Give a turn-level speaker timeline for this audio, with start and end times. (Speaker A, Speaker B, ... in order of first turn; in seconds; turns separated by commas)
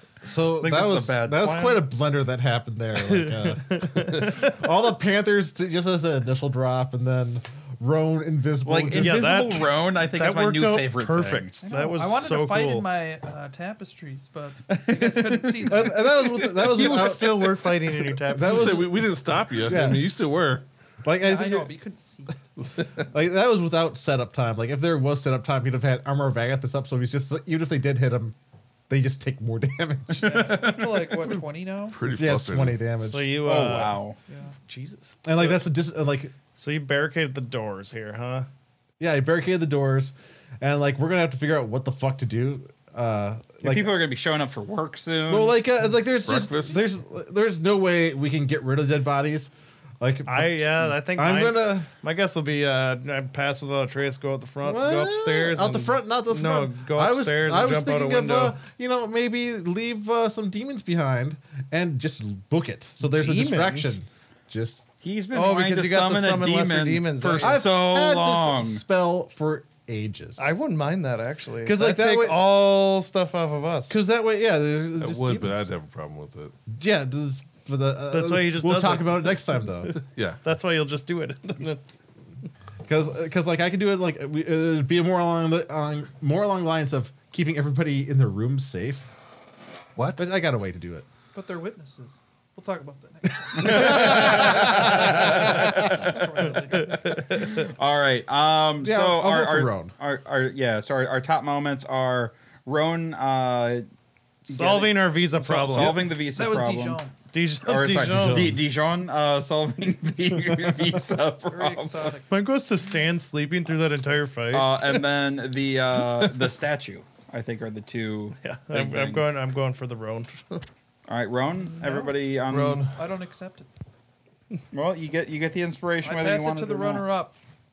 Speaker A: 0.2-9.3, Speaker B: 0.6-1.9, Speaker C: 3.0-4.5, Speaker B: 8.6-11.6, Speaker C: 8.9-12.9, Speaker D: 11.6-16.6, Speaker B: 14.7-16.8, Speaker A: 15.7-19.0, Speaker C: 16.7-18.8, Speaker E: 18.3-20.6, Speaker A: 19.6-20.1, Speaker A: 21.0-21.7, Speaker D: 21.2-22.4, Speaker A: 22.9-28.4, Speaker A: 28.9-30.4, Speaker B: 30.1-31.2, Speaker D: 30.2-32.0, Speaker E: 31.3-32.9, Speaker A: 32.1-33.4, Speaker C: 33.0-34.0, Speaker B: 33.4-34.2, Speaker D: 34.3-34.6, Speaker C: 34.7-35.6, Speaker A: 35.2-36.4, Speaker C: 36.5-38.5, Speaker A: 39.0-43.9, Speaker B: 43.6-45.6, Speaker A: 45.3-51.9, Speaker E: 46.2-46.9, Speaker C: 50.3-58.6, Speaker A: 54.6-64.8, Speaker C: 63.0-64.0, Speaker B: 65.0-68.8, Speaker C: 65.3-67.6, Speaker A: 67.4-70.5, Speaker C: 70.4-74.0, Speaker A: 71.6-72.5, Speaker A: 73.9-75.7, Speaker E: 75.0-76.6, Speaker A: 76.7-79.9, Speaker C: 78.1-79.7, Speaker E: 80.0-80.4, Speaker C: 80.4-81.8, Speaker A: 82.9-89.1, Speaker A: 90.2-91.1, Speaker D: 91.3-97.2, Speaker A: 93.6-95.5, Speaker B: 93.8-96.2, Speaker C: 96.9-97.7, Speaker B: 97.3-103.8, Speaker A: 98.8-99.9, Speaker C: 104.5-106.1, Speaker B: 104.5-107.0, Speaker D: 106.3-107.2, Speaker C: 107.3-108.5, Speaker B: 107.6-112.1, Speaker A: 107.9-108.6, Speaker D: 111.5-112.4, Speaker C: 112.3-115.0, Speaker B: 114.5-119.3, Speaker C: 118.4-120.7, Speaker B: 121.1-122.8, Speaker D: 121.6-122.2, Speaker E: 122.5-123.0, Speaker D: 122.9-123.7, Speaker B: 124.7-127.1, Speaker D: 126.0-127.3